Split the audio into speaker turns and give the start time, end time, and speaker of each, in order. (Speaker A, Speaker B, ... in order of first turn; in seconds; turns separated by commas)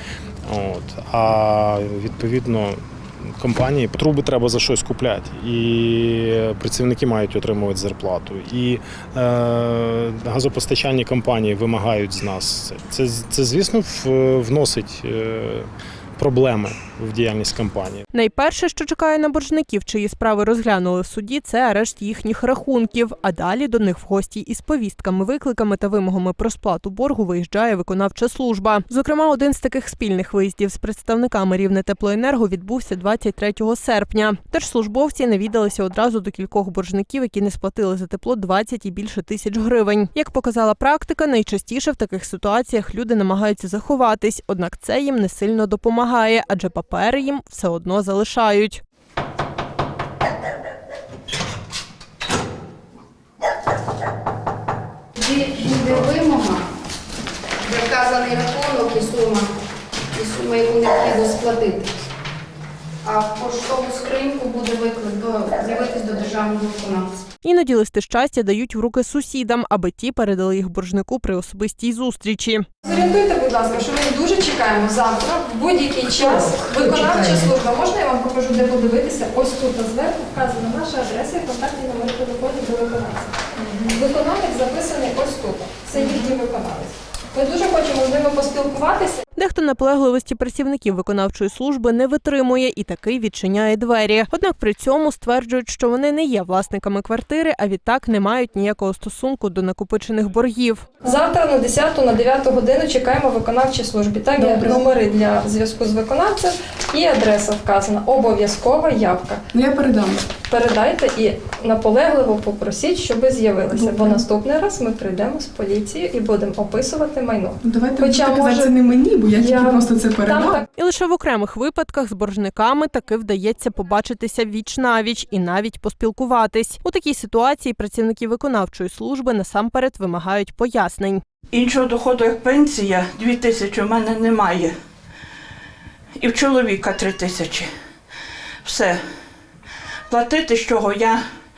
Speaker A: 0.5-18.0, Speaker B: 18.1-48.8, Speaker C: 55.1-56.6, Speaker C: 57.6-59.5, Speaker C: 60.1-61.9, Speaker C: 63.0-67.2, Speaker B: 67.4-72.7, Speaker D: 72.8-89.2, Speaker E: 76.3-77.5, Speaker B: 89.3-100.8, Speaker D: 101.0-109.4, Speaker E: 104.4-104.8, Speaker E: 109.5-110.3, Speaker D: 110.4-118.7, Speaker E: 113.7-114.2, Speaker E: 117.6-120.6, Speaker D: 119.3-120.6, Speaker B: 120.7-131.2, Speaker F: 131.5-134.7, Speaker F: 136.2-137.7, Speaker F: 138.6-139.0, Speaker F: 140.1-141.2